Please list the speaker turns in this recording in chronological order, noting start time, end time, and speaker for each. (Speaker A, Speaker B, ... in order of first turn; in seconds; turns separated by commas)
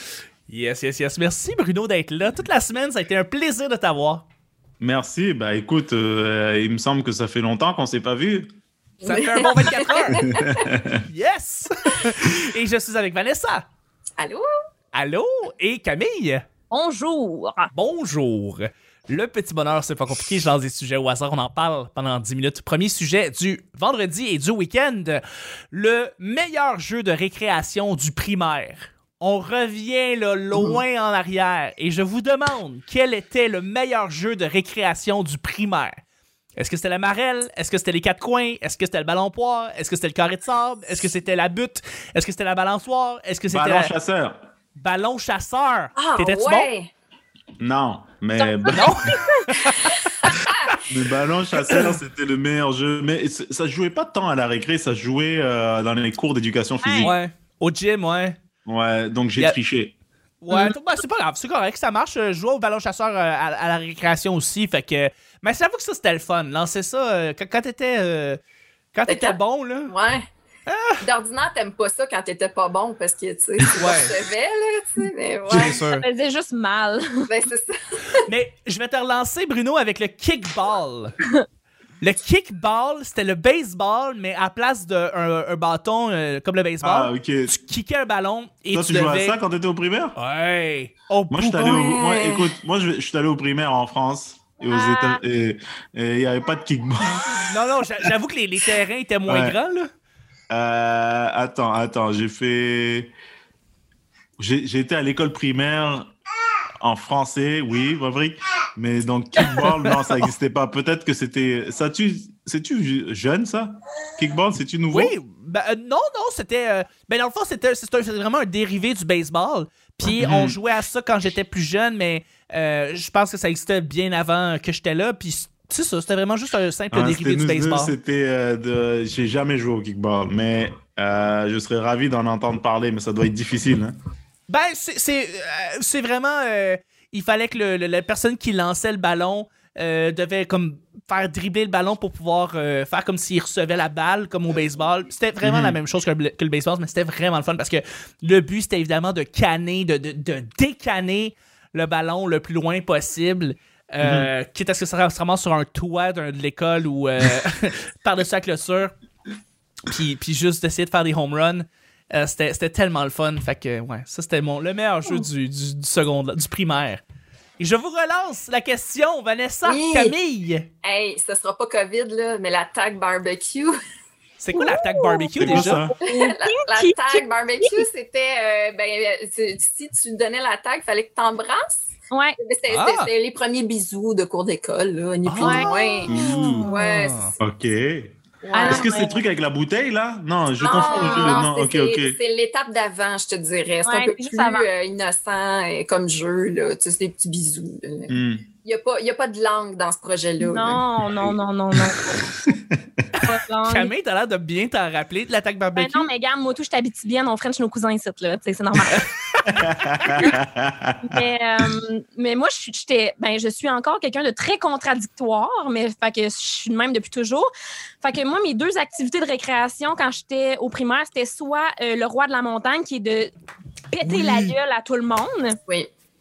Speaker A: 0.5-4.2, Speaker B: 4.8-8.5, Speaker C: 9.0-10.5, Speaker A: 9.0-10.4, Speaker B: 10.1-11.0, Speaker A: 11.0-13.7, Speaker C: 14.2-14.4, Speaker A: 14.9-16.4, Speaker D: 16.7-17.7, Speaker A: 17.7-36.0, Speaker A: 36.6-43.9, Speaker B: 43.5-44.5, Speaker A: 44.8-46.7, Speaker C: 46.0-46.9, Speaker B: 47.6-49.1, Speaker D: 48.4-49.5, Speaker A: 48.7-49.9, Speaker B: 50.9-57.2, Speaker A: 51.6-52.0, Speaker D: 56.8-57.1, Speaker A: 57.0-58.4, Speaker B: 58.7-59.9, Speaker A: 60.4-68.4, Speaker A: 68.9-69.9, Speaker C: 69.1-70.3, Speaker A: 70.7-71.0, Speaker C: 71.0-75.8, Speaker A: 73.8-74.2, Speaker A: 75.5-76.0, Speaker D: 75.5-77.3, Speaker C: 77.3-78.2, Speaker A: 78.3-81.2, Speaker A: 82.0-89.4, Speaker B: 86.8-87.6, Speaker B: 88.7-90.2, Speaker A: 90.2-91.8, Speaker B: 91.3-97.4, Speaker C: 91.6-92.5, Speaker D: 94.7-95.2, Speaker A: 97.2-99.9, Speaker B: 99.3-99.6, Speaker B: 100.5-103.1, Speaker B: 104.4-106.1, Speaker B: 106.8-115.1, Speaker A: 114.9-127.9, Speaker B: 120.1-120.6, Speaker B: 126.9-133.9, Speaker A: 134.5-158.9, Speaker B: 145.4-145.8, Speaker B: 154.0-154.3, Speaker A: 159.9-167.0, Speaker A: 167.6-170.7, Speaker C: 169.7-170.2, Speaker C: 170.8-173.7, Speaker A: 174.4-175.8, Speaker D: 174.5-177.8, Speaker B: 175.4-175.9, Speaker C: 176.1-181.8, Speaker D: 182.1-182.4, Speaker C: 182.4-187.3, Speaker A: 182.7-183.1, Speaker A: 185.3-185.7, Speaker D: 185.4-186.9, Speaker B: 186.1-186.7, Speaker A: 186.7-187.3, Speaker B: 187.4-192.2, Speaker C: 188.4-189.0, Speaker D: 188.6-189.2, Speaker C: 190.6-200.8, Speaker D: 190.6-191.4, Speaker D: 193.8-194.7, Speaker B: 198.1-198.4, Speaker D: 200.4-202.2, Speaker B: 202.4-202.8, Speaker A: 203.2-206.1, Speaker D: 203.3-203.9, Speaker D: 205.8-209.0, Speaker B: 209.5-211.2, Speaker A: 209.9-210.2, Speaker D: 211.1-217.5, Speaker D: 218.0-223.3, Speaker D: 223.9-225.6, Speaker B: 224.1-224.4